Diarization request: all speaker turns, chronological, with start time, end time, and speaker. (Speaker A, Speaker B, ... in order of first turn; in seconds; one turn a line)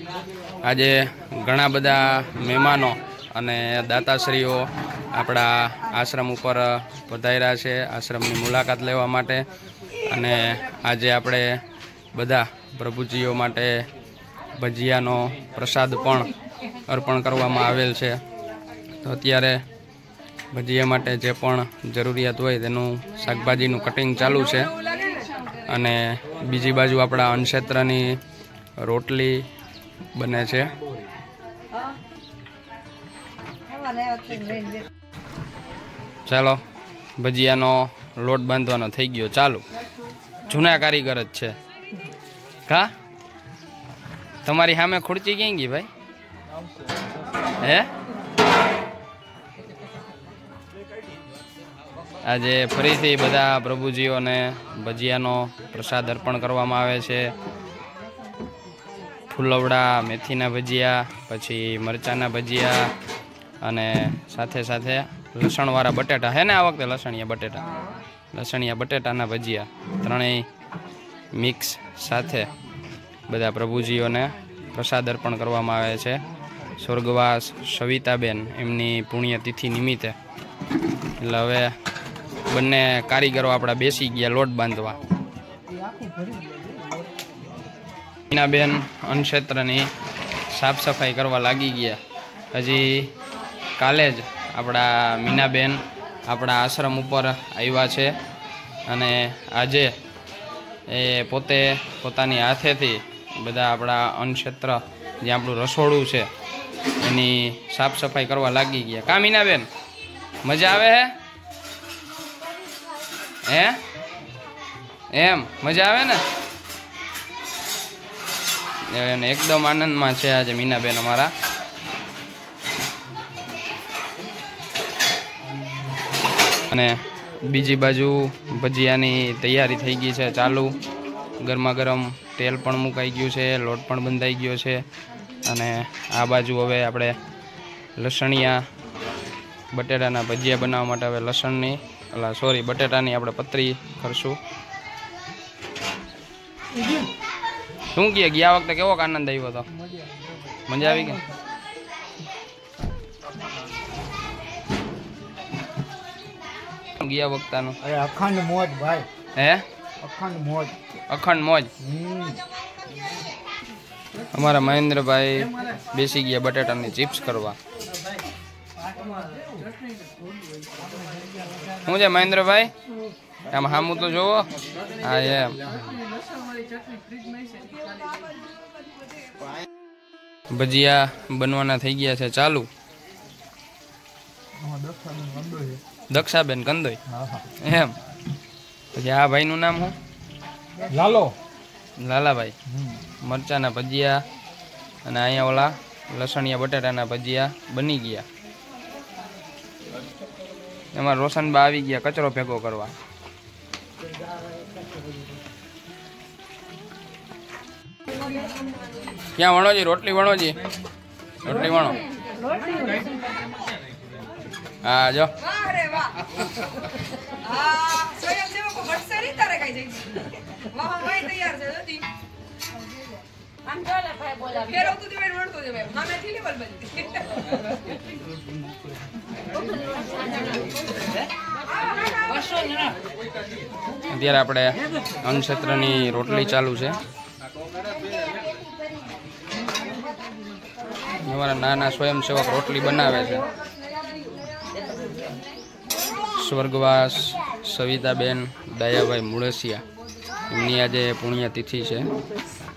Speaker A: 0.6-9.4
Speaker A: 10.1-11.6
Speaker A: 12.1-13.8
Speaker A: 14.6-16.3
Speaker A: 16.9-18.2
Speaker A: 19.0-19.6
Speaker A: 20.5-28.2
Speaker A: 28.8-29.5
Speaker A: 30.1-30.7
Speaker A: 36.2-36.6
Speaker A: 37.2-39.6
Speaker A: 40.5-41.5
Speaker A: 42.7-42.9
Speaker A: 44.4-45.9
Speaker A: 47.6-47.9
Speaker A: 52.2-57.3
Speaker A: 59.3-62.9
Speaker A: 63.6-67.7
Speaker A: 68.3-70.5
Speaker A: 71.3-72.5
Speaker A: 73.3-76.2
Speaker A: 76.8-80.1
Speaker A: 81.2-81.8
Speaker A: 82.5-85.0
Speaker A: 88.3-89.9
Speaker A: 90.5-92.0
Speaker A: 92.5-93.1
Speaker A: 93.8-98.1
Speaker A: 98.9-100.0
Speaker A: 100.9-106.3
Speaker A: 106.9-109.7
Speaker A: 110.4-111.2
Speaker A: 113.4-113.8
Speaker A: 115.1-116.2
Speaker A: 118.9-121.3
Speaker A: 126.7-130.8
Speaker A: 131.4-134.8
Speaker A: 135.4-137.2
Speaker A: 138.0-138.6
Speaker A: 139.7-144.4
Speaker A: 147.9-149.7
Speaker A: 150.7-151.2
Speaker A: 157.0-157.8
Speaker B: 157.8-159.1
Speaker A: 159.3-159.6
Speaker B: 160.0-160.8
Speaker A: 161.1-161.7
Speaker B: 161.8-162.4
Speaker A: 164.3-167.6
Speaker A: 171.8-172.7
Speaker A: 173.5-175.6
Speaker C: 177.6-178.2
Speaker A: 180.5-182.7
Speaker B: 184.6-185.8
Speaker A: 186.1-187.0
Speaker B: 187.1-187.4
Speaker A: 187.6-188.0
Speaker A: 188.9-189.9
Speaker B: 190.8-191.4
Speaker A: 192.0-192.5
Speaker B: 192.7-193.0
Speaker A: 193.2-194.2
Speaker A: 195.0-198.2
Speaker A: 200.9-202.9
Speaker A: 209.3-210.6
Speaker A: 211.4-212.0
Speaker A: 214.8-215.5
Speaker C: 215.6-216.1
Speaker C: 217.5-220.0
Speaker C: 220.7-222.0
Speaker C: 224.2-227.0
Speaker C: 232.3-232.7
Speaker A: 234.1-237.0
Speaker A: 241.2-243.5
Speaker A: 246.4-249.8
Speaker A: 250.5-252.1